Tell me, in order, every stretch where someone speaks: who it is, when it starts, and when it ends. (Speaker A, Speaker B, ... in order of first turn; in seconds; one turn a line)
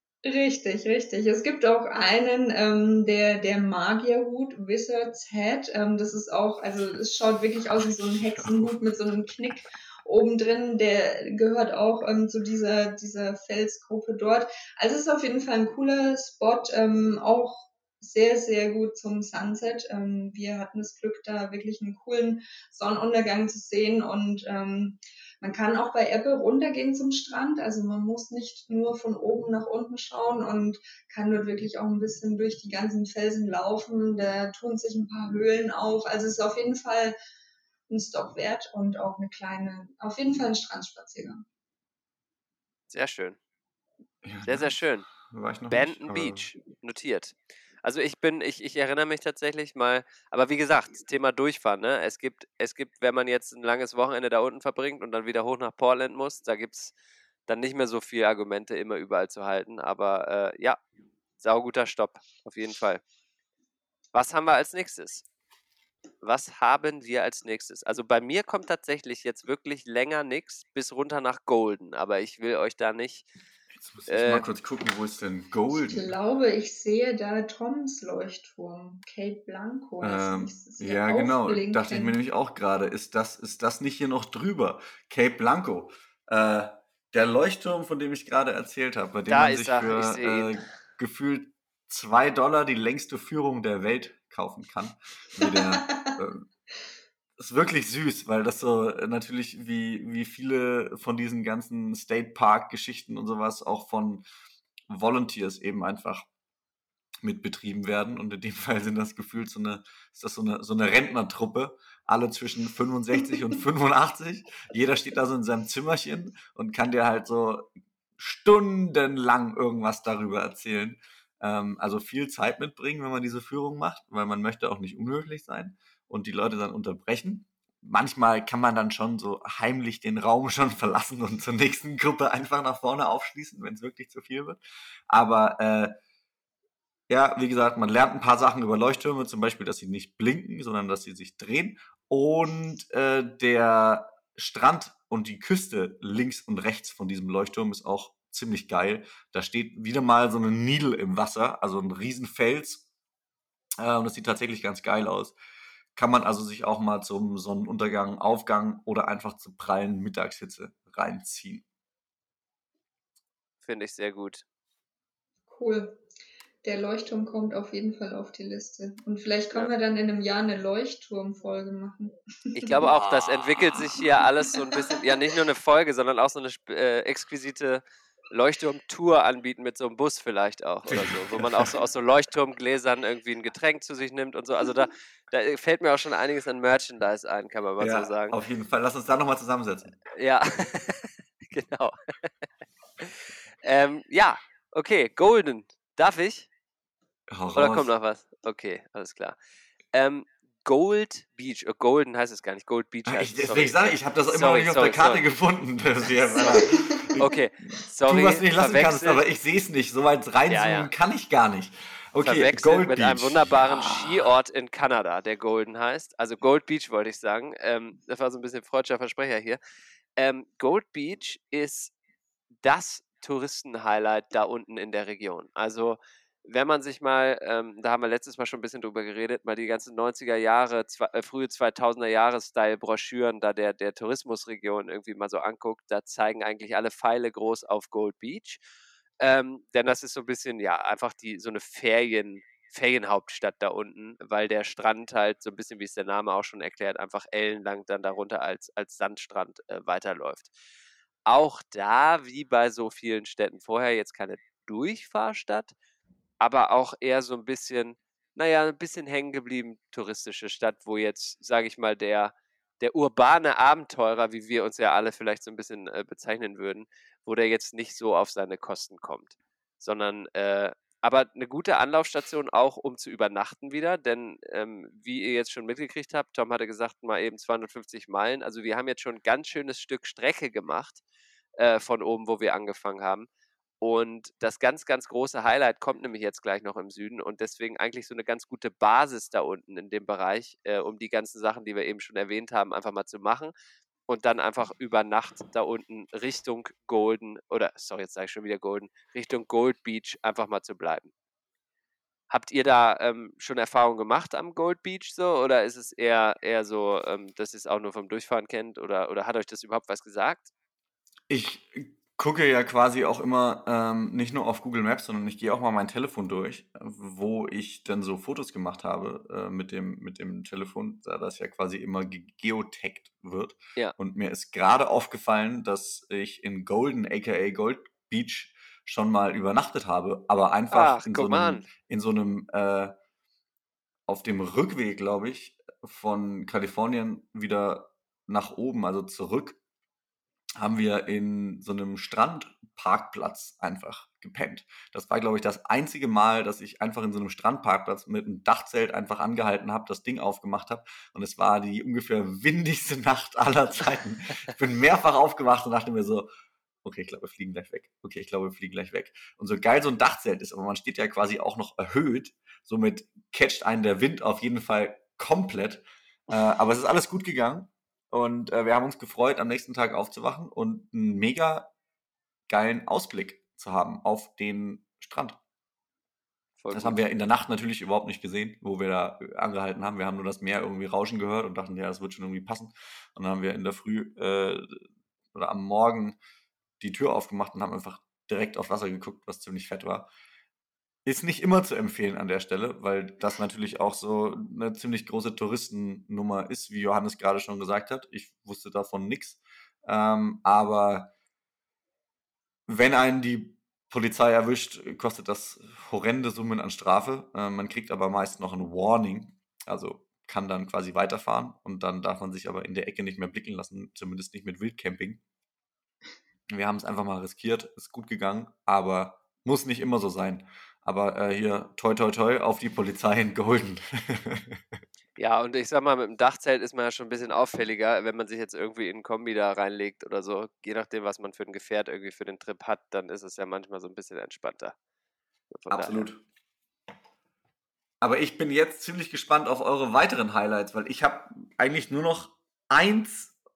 Speaker A: 0.2-37.1
Speaker B: 7.8-8.8
Speaker A: 37.9-41.4
Speaker C: 42.9-43.4
Speaker B: 44.2-46.4
Speaker C: 44.5-45.1
Speaker C: 45.7-56.9
Speaker C: 57.5-60.8
Speaker C: 61.4-63.0
Speaker C: 64.1-65.2
Speaker C: 66.2-73.3
Speaker B: 73.7-76.1
Speaker C: 74.1-74.4
Speaker A: 75.7-82.2
Speaker B: 80.0-96.5
Speaker C: 89.3-90.6
Speaker A: 95.4-96.2
Speaker B: 97.4-104.2
Speaker B: 104.9-106.3
Speaker B: 107.2-136.0
Speaker B: 137.1-152.8
Speaker B: 153.8-155.3
Speaker B: 155.9-161.6
Speaker C: 163.6-164.4
Speaker A: 165.5-166.0
Speaker A: 166.6-172.7
Speaker C: 172.5-188.3
Speaker B: 172.8-173.9
Speaker B: 180.9-181.8
Speaker B: 187.8-189.9
Speaker C: 190.1-192.0
Speaker C: 193.0-196.5
Speaker B: 197.3-197.9
Speaker C: 197.6-199.3
Speaker C: 199.9-205.2
Speaker B: 203.1-207.4
Speaker A: 206.5-207.1
Speaker C: 207.2-209.2
Speaker B: 208.0-214.3
Speaker C: 210.5-210.9
Speaker C: 212.2-219.6
Speaker C: 220.2-221.9
Speaker C: 222.6-238.6
Speaker C: 239.2-250.5
Speaker C: 251.2-255.7
Speaker C: 256.4-281.0
Speaker C: 281.6-283.3
Speaker C: 283.8-293.5
Speaker C: 294.1-301.1
Speaker C: 302.3-310.5
Speaker B: 311.3-332.9
Speaker C: 330.7-331.7
Speaker B: 334.1-339.6
Speaker B: 340.6-356.3
Speaker B: 356.8-371.7
Speaker B: 372.5-375.4
Speaker C: 376.6-377.0
Speaker B: 376.7-384.8
Speaker B: 385.3-386.2
Speaker B: 386.8-390.1
Speaker B: 391.0-401.1
Speaker B: 402.7-415.2
Speaker B: 416.5-424.8
Speaker C: 425.2-434.7
Speaker C: 435.5-436.1
Speaker B: 435.7-436.2
Speaker B: 438.0-443.3